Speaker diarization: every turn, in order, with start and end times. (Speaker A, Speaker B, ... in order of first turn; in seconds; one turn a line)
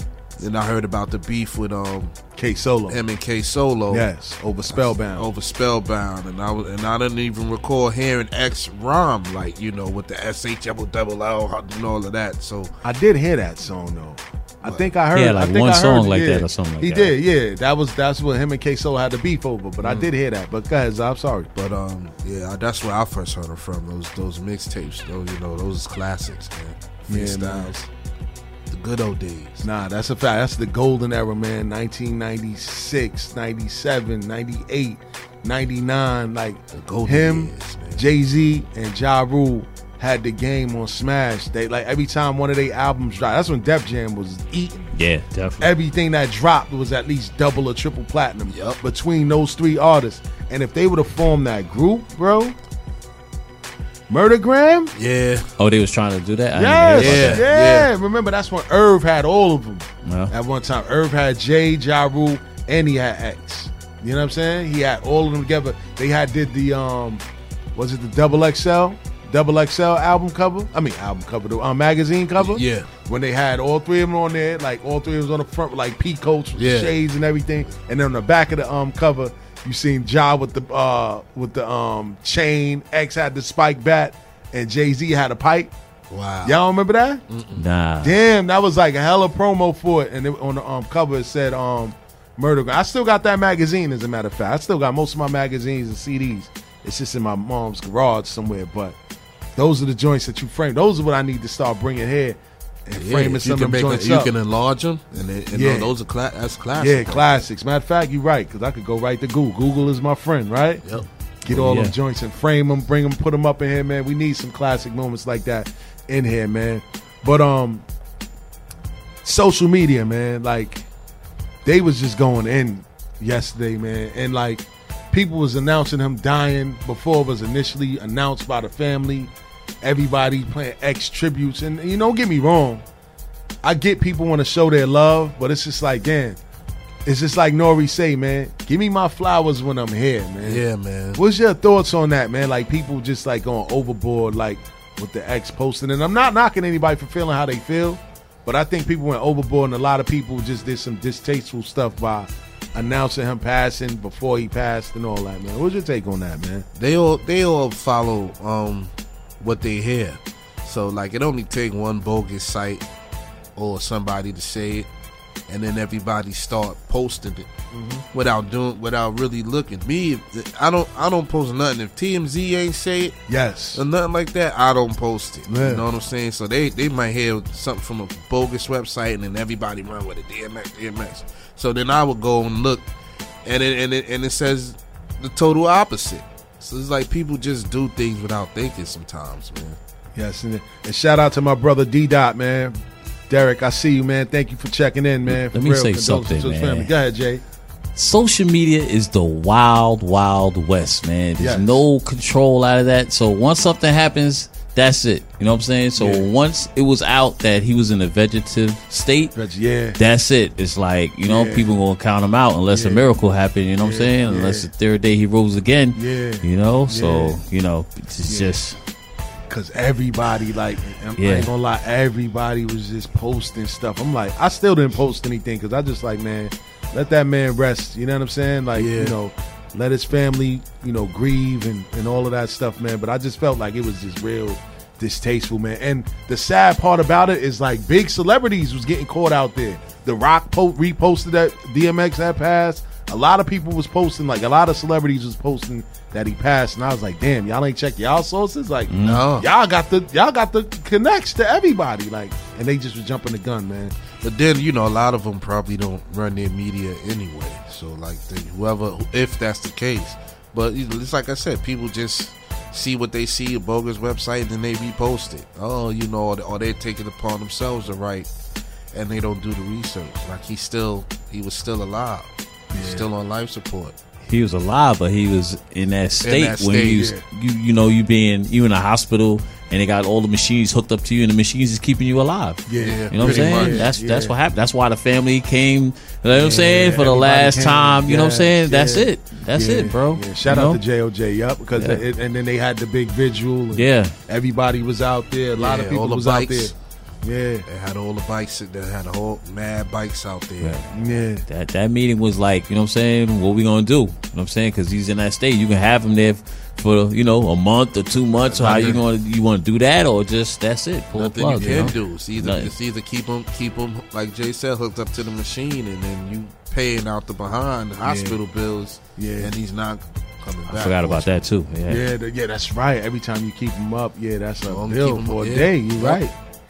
Speaker A: 0.4-2.2
Speaker B: 2.4-3.0
Speaker A: 2.9-4.1
Speaker B: 3.9-5.3
Speaker A: 4.7-12.7
Speaker B: 12.8-21.5
Speaker C: 15.1-17.1
Speaker A: 19.8-20.1
Speaker A: 21.6-27.9
Speaker B: 27.1-27.7
Speaker A: 28.7-29.6
Speaker B: 29.6-44.9
Speaker A: 36.7-38.1
Speaker C: 45.0-45.7
Speaker B: 45.6-52.5
Speaker A: 48.5-48.8
Speaker B: 54.1-54.9
Speaker A: 55.0-55.5
Speaker C: 55.6-57.4
Speaker B: 56.5-67.2
Speaker A: 57.0-57.9
Speaker C: 60.1-60.3
Speaker B: 67.8-85.7
Speaker A: 72.4-72.9
Speaker A: 76.6-77.0
Speaker A: 86.1-86.6
Speaker B: 86.4-87.2
Speaker A: 87.3-87.6
Speaker C: 87.6-88.2
Speaker B: 88.0-99.0
Speaker B: 99.6-104.3
Speaker A: 102.9-107.3
Speaker B: 105.5-105.9
Speaker B: 106.8-110.8
Speaker B: 111.5-117.8
Speaker C: 111.5-111.9
Speaker B: 119.2-120.9
Speaker B: 121.7-132.8
Speaker B: 133.6-136.4
Speaker B: 137.1-140.6
Speaker A: 140.4-141.2
Speaker B: 141.1-156.7
Speaker A: 156.8-162.8
Speaker A: 163.6-164.9
Speaker A: 165.5-167.5
Speaker B: 167.7-168.0
Speaker A: 168.1-173.2
Speaker B: 173.3-173.8
Speaker A: 173.7-182.8
Speaker B: 175.5-175.8
Speaker A: 183.4-189.8
Speaker B: 190.2-192.8
Speaker B: 193.3-197.4
Speaker C: 195.3-196.9
Speaker C: 198.0-209.3
Speaker B: 201.4-201.8
Speaker B: 206.0-206.3
Speaker B: 209.3-210.0
Speaker C: 210.0-218.8
Speaker B: 211.2-211.7
Speaker B: 212.7-213.0
Speaker B: 213.8-214.7
Speaker B: 215.9-217.4
Speaker B: 218.3-218.6
Speaker B: 219.5-253.9
Speaker C: 221.2-221.5
Speaker A: 228.8-229.2
Speaker C: 248.9-249.2
Speaker A: 249.0-249.5
Speaker A: 254.2-268.3
Speaker A: 268.9-274.0
Speaker B: 272.7-273.1
Speaker C: 274.3-290.8
Speaker A: 276.2-277.1
Speaker B: 282.7-284.3
Speaker A: 282.8-283.9
Speaker B: 286.3-297.6
Speaker C: 291.8-292.0
Speaker C: 293.7-294.1
Speaker A: 295.6-296.7
Speaker A: 297.7-300.8
Speaker C: 300.6-300.9
Speaker B: 300.9-301.4
Speaker C: 301.5-312.7
Speaker A: 308.4-309.0
Speaker A: 311.1-321.4
Speaker B: 318.1-318.4
Speaker B: 319.2-319.5
Speaker C: 320.7-322.0
Speaker B: 321.9-326.3
Speaker A: 324.6-326.2